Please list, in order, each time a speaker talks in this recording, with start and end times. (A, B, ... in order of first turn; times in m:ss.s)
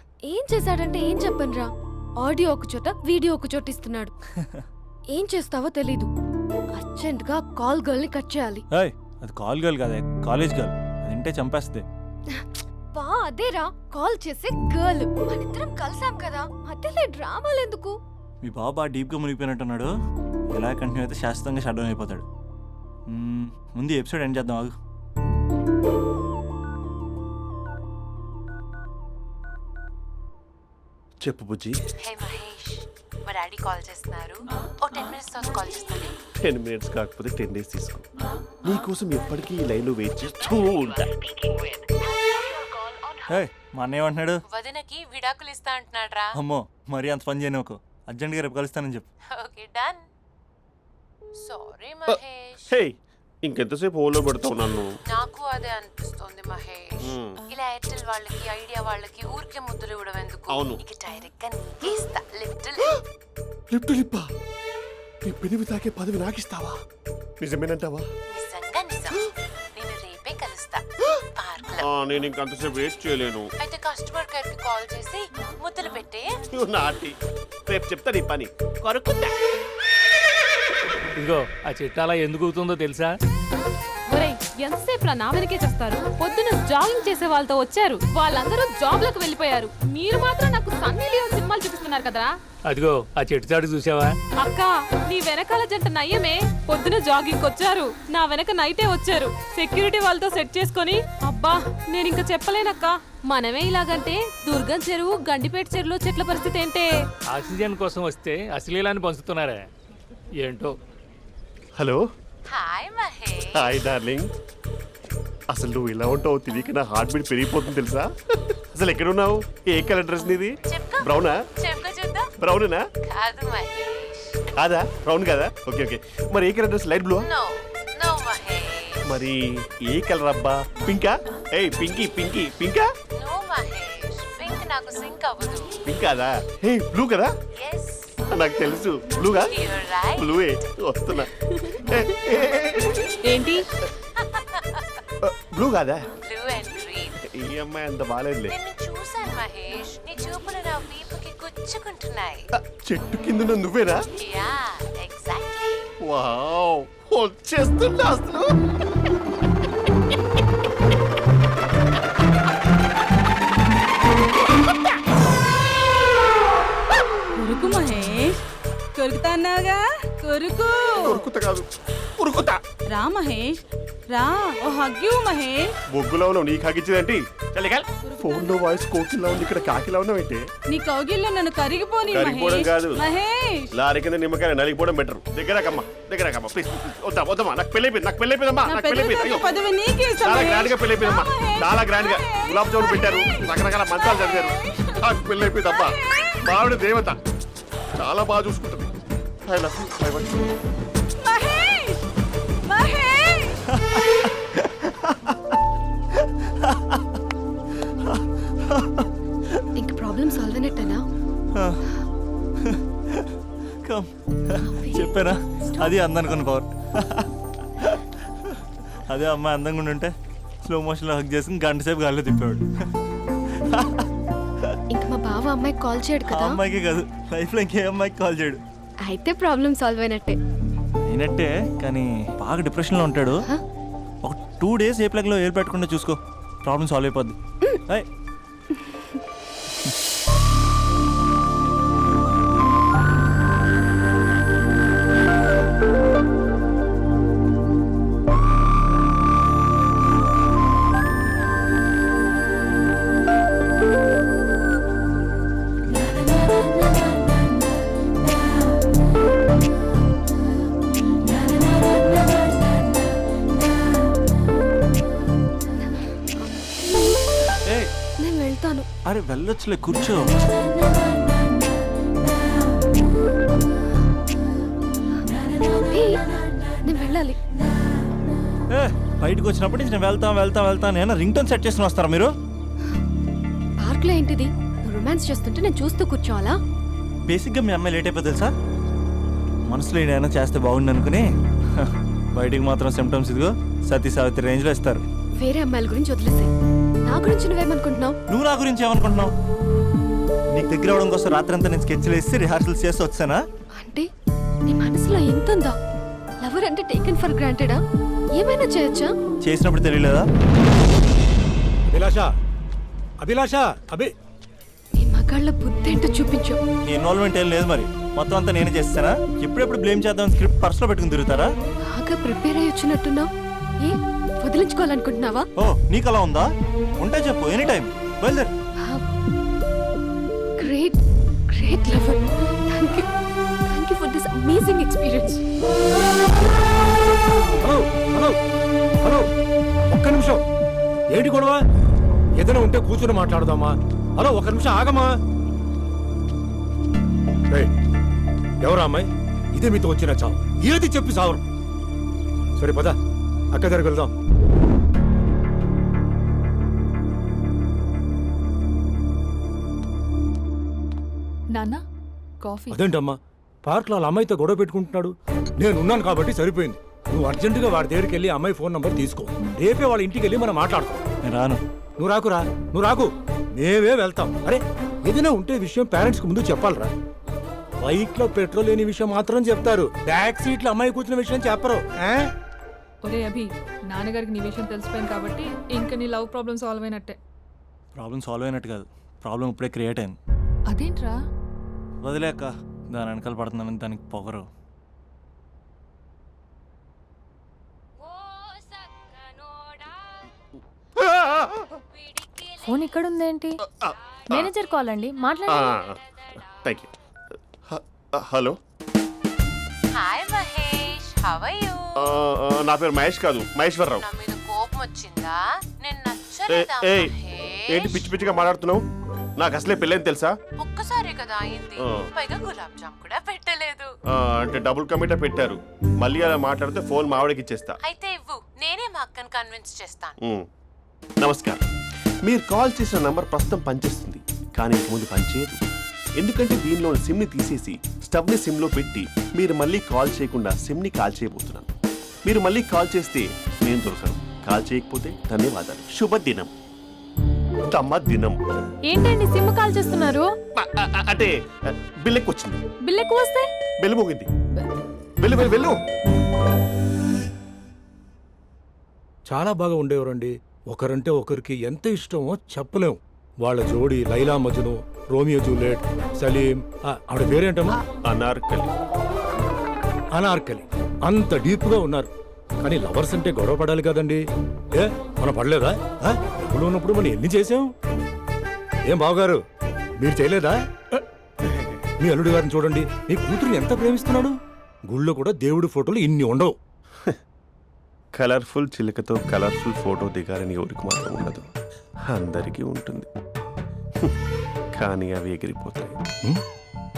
0:00.2-0:04.1 A
0:05.1-0:06.1 A
0:06.7-0:08.6 A
0:08.7-0:11.8 B
0:12.3-0:17.9 A
0:18.4-0:19.9 B
0:20.5-0:22.2 B
0:23.1-0:24.7 B
0:31.2-0:31.8 C
0:32.0-0:36.1 D
0:36.4-0:38.0 C
0:38.6-0:41.1 C
0:43.3-0:44.4 B
0:44.5-0:46.3 D
0:46.3-0:49.1 B
0:49.3-0:50.0 D
0:51.4-0:52.7 D
0:52.1-0:54.9 C
0:55.1-1:02.9 D
0:57.0-0:57.4 C
1:00.5-1:00.8 C
1:03.7-1:04.2 C
1:05.2-1:06.8 C
1:07.4-1:08.0 C
1:08.3-1:11.8 D
1:11.8-1:13.5 C
1:13.6-1:16.4 D
1:16.5-1:17.2 C
1:17.7-1:19.3 C
1:21.2-1:23.1 E
1:24.1-1:32.3 F
1:32.7-1:34.1 E
1:34.4-1:46.9 F
1:47.3-1:49.6 E
1:50.4-1:50.7 E
1:51.8-1:52.0 C
1:52.5-1:53.9 D
1:53.5-1:54.3 C
1:55.5-1:58.1 C
1:58.7-2:01.4 C
2:00.7-2:02.3 D
2:02.4-2:02.8 C
2:03.0-2:04.4 D
2:04.6-2:07.2 C
2:07.2-2:09.0 D
2:09.0-2:12.9 C
2:13.2-2:15.7 D
2:15.8-2:17.3 C
2:17.6-2:18.2 D
2:18.3-2:19.5 C
2:19.5-2:20.4 D
2:20.2-2:23.1 C
2:24.2-2:25.0 D
2:25.2-2:26.1 C
2:26.2-2:27.2 D
2:27.4-2:28.5 C
2:28.5-2:32.5 D
2:32.6-2:34.0 C
2:34.2-2:35.9 D
2:36.0-2:38.5 C
2:47.4-2:48.4 G
2:48.9-2:51.2 G
2:51.0-2:51.6 C
2:52.2-2:52.6 C
2:52.9-2:53.6 G
2:54.1-2:55.7 G
2:55.9-3:00.4 C
3:00.7-3:03.7 G
3:02.1-3:03.0 C
3:03.7-3:09.6 C
3:08.6-3:13.3 G
3:10.2-3:17.2 C
3:18.0-3:18.9 C
3:19.5-3:20.4 C
3:21.3-3:22.0 G
3:22.7-3:23.5 G
3:23.7-3:25.6 B
3:26.1-3:27.0 B
3:28.0-3:29.1 B
3:29.8-3:31.0 A
3:31.5-3:31.8 B
3:32.6-3:33.3 B
3:33.8-3:37.3 B
3:34.6-3:35.9 A
3:37.8-3:40.1 B
3:40.6-3:42.6 B
3:43.7-3:44.0 B
3:44.9-3:46.6 A
3:46.2-3:48.6 B
3:49.0-3:50.4 A
3:51.1-3:53.5 B
3:54.2-3:57.4 B
4:25.9-4:27.4 A
4:28.2-4:28.8 A
4:29.0-4:30.2 B
4:35.9-4:36.2 A
4:36.8-4:37.4 A
4:38.7-4:42.3 B
4:43.8-4:46.6 A
4:47.3-4:48.5 B
4:49.7-4:51.2 B
4:51.8-4:55.0 B
4:55.4-4:56.5 A
4:57.0-4:58.2 A
4:58.3-4:59.3 B
5:00.5-5:03.4 B
5:03.8-5:04.1 A
5:04.6-5:05.8 A
5:06.4-5:07.8 A
5:08.3-5:09.1 A
5:09.4-5:10.2 B
5:11.9-5:12.3 H
5:13.2-5:14.1 H
5:15.0-5:16.6 A
5:16.9-5:21.5 B
5:21.9-5:23.3 A
5:23.8-5:25.4 A
5:25.6-5:26.5 B
5:27.0-5:28.5 B
5:30.6-5:31.0 A
5:31.5-5:33.1 A
5:33.7-5:35.4 A
5:37.6-5:38.4 H
5:39.0-5:39.3 H
5:39.9-5:40.4 H
5:41.1-5:41.6 H
5:42.4-5:45.1 H
5:48.6-5:51.4 H
5:52.6-5:53.0 H
5:53.5-5:54.1 H
6:01.5-6:01.8 I
6:02.4-6:02.8 I
6:02.7-6:11.0 H
6:11.2-6:11.6 B
6:12.0-6:16.9 H
6:17.8-6:22.3 H
6:23.0-6:27.2 I
6:27.9-6:30.2 B
6:30.7-6:31.1 I
6:32.0-6:34.5 B
6:38.1-6:39.8 D
6:42.1-6:42.4 D
6:42.6-6:43.5 J
6:43.8-6:44.5 C
6:44.3-6:45.6 J
6:45.5-6:46.0 C
6:46.6-6:46.9 C
6:47.7-6:48.5 C
6:50.0-6:51.8 D
6:52.0-6:54.0 C
6:54.0-6:58.1 D
6:56.5-6:57.1 C
6:57.7-6:58.8 C
6:59.4-7:00.3 C
7:00.6-7:03.9 D
7:01.8-7:02.1 C
7:04.2-7:07.8 C
7:07.8-7:10.2 D
7:11.2-7:11.6 C
7:12.2-7:15.7 C
7:16.2-7:21.7 C
7:22.2-7:26.5 C
7:27.7-7:28.4 C
7:28.9-7:30.2 J
7:30.6-7:31.3 C
7:32.0-7:32.6 C
7:33.8-7:34.3 C
7:35.2-7:35.8 C
7:39.3-7:47.8 H
7:48.0-7:48.7 C
7:50.1-7:54.2 H
7:54.7-7:57.7 H
7:58.9-7:59.4 H
8:00.0-8:00.6 H
8:02.0-8:04.4 H
8:04.9-8:06.6 H
8:08.1-8:11.4 C
8:12.1-8:13.1 C
8:14.7-8:15.9 C